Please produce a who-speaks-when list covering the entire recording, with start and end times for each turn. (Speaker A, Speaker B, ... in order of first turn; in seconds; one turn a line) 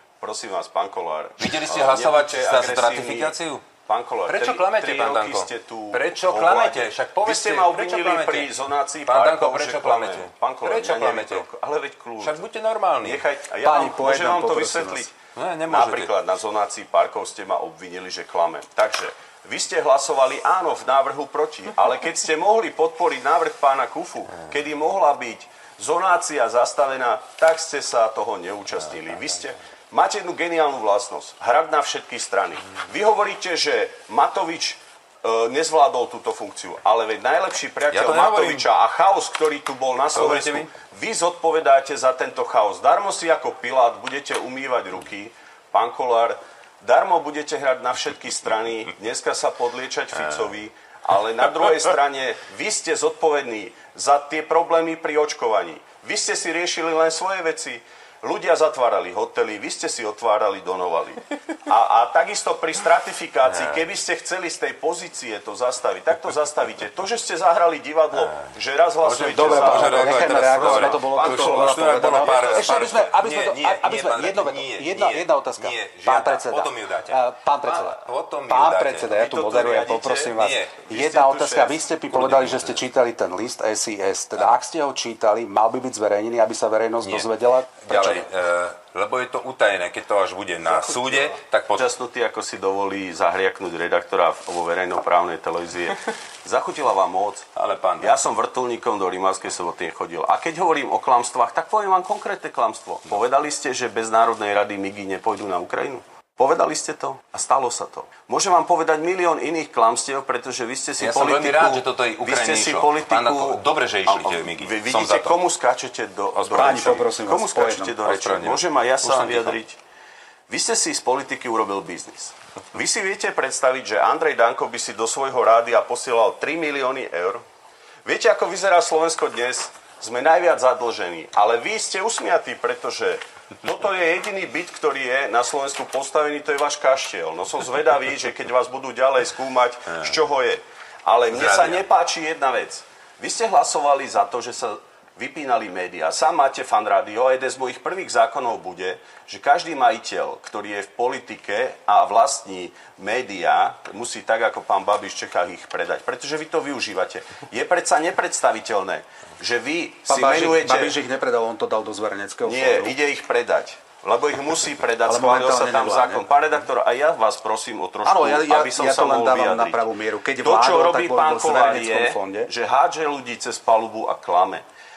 Speaker A: 0.2-12.5
Speaker B: 1.4-3.7
Speaker B: 4.2-11.5
Speaker B: 12.2-13.2
Speaker A: 13.0-15.1
Speaker C: 13.6-15.1
Speaker B: 14.0-14.7
Speaker B: 15.3-16.1
Speaker A: 15.7-72.8
Speaker B: 28.8-29.4
Speaker B: 37.9-38.7
Speaker B: 40.1-40.8
Speaker B: 50.1-50.5
Speaker B: 63.5-63.9
Speaker B: 68.1-81.1
Speaker C: 69.3-87.7
Speaker A: 79.2-82.5
Speaker B: 82.1-82.8
Speaker B: 87.0-91.9
Speaker A: 90.6-97.5
Speaker B: 97.5-98.2
Speaker A: 98.0-119.8
Speaker B: 111.0-115.4
Speaker B: 116.3-119.6
Speaker C: 116.5-117.9
Speaker A: 120.5-127.4
Speaker A: 128.1-160.9
Speaker B: 139.9-140.2
Speaker B: 141.3-141.8
Speaker C: 160.1-162.9
Speaker A: 162.4-174.6
Speaker C: 165.0-166.3
Speaker C: 168.0-172.2